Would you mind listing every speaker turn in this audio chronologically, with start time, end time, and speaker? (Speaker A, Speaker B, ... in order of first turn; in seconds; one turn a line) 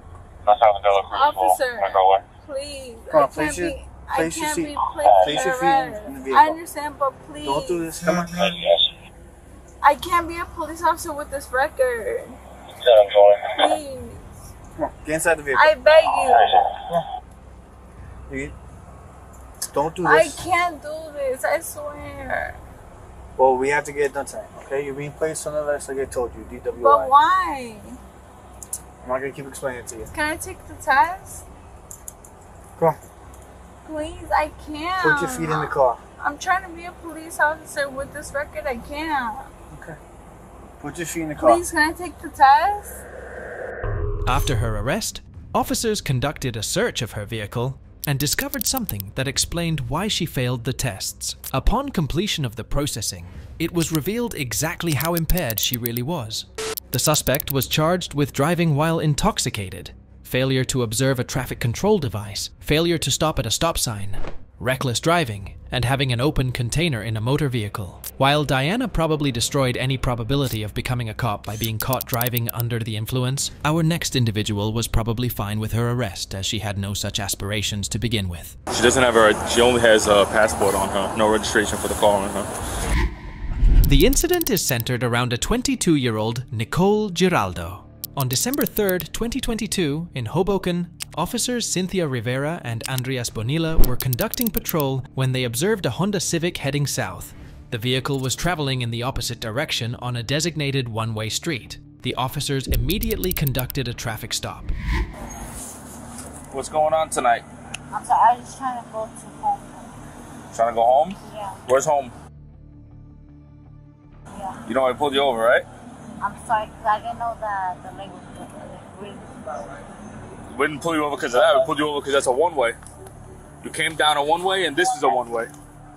Speaker A: 0.4-2.2
Speaker B: 1.1-7.9
Speaker C: 3.1-6.6
Speaker C: 7.4-8.5
Speaker A: 8.3-8.9
Speaker B: 9.8-12.4
Speaker A: 12.8-13.7
Speaker B: 13.5-14.2
Speaker C: 14.8-15.8
Speaker B: 15.5-16.5
Speaker A: 16.1-16.7
Speaker C: 18.3-18.5
Speaker C: 19.7-20.4
Speaker B: 20.0-22.6
Speaker C: 23.4-27.1
Speaker B: 26.8-28.0
Speaker C: 29.0-30.1
Speaker B: 30.1-31.4
Speaker B: 33.8-39.5
Speaker C: 35.0-36.0
Speaker C: 39.7-40.0
Speaker C: 40.8-41.6
Speaker B: 41.4-43.0
Speaker D: 44.2-78.5
Speaker E: 78.7-82.5
Speaker D: 83.8-104.7
Speaker E: 106.5-107.5
Speaker F: 107.9-109.9
Speaker E: 110.5-112.1
Speaker F: 111.2-111.6
Speaker E: 114.7-115.7
Speaker F: 116.2-119.4
Speaker E: 120.5-122.8
Speaker E: 123.6-125.5